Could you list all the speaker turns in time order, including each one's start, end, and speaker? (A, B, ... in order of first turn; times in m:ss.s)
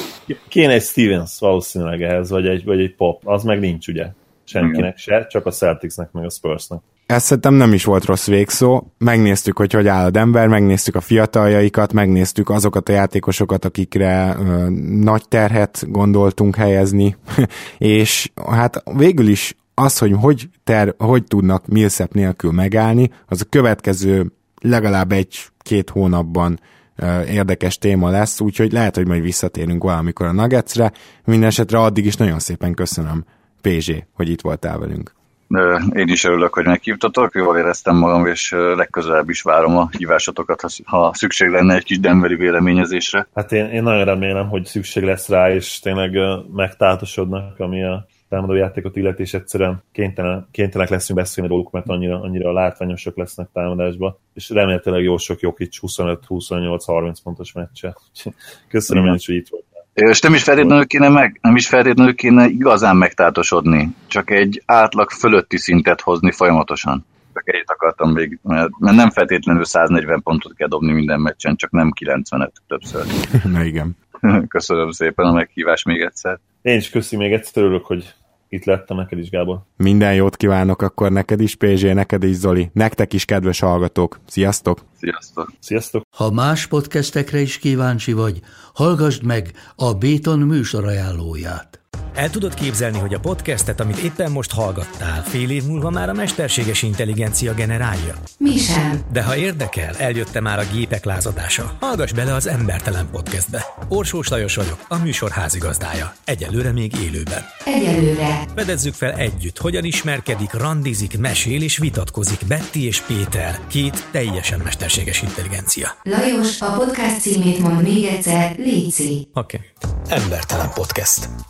0:00.3-0:06.8 A
0:07.1-0:35.1 B
0:35.5-0:43.2 C
0:43.4-0:59.7 A
0:58.9-0:59.2 C
1:00.0-1:13.1 C
1:13.3-1:14.0 B
1:14.2-1:16.4 C
1:16.6-1:19.6 A
1:19.8-1:24.8 B
1:25.0-1:25.5 C
1:25.6-1:26.0 A
1:26.2-1:31.8 D
1:32.2-1:38.2 E
1:38.4-1:39.0 F
1:39.1-1:47.5 E
1:47.7-1:48.4 F
1:48.6-1:56.0 E
1:56.1-1:59.2 F
1:59.4-2:01.3 E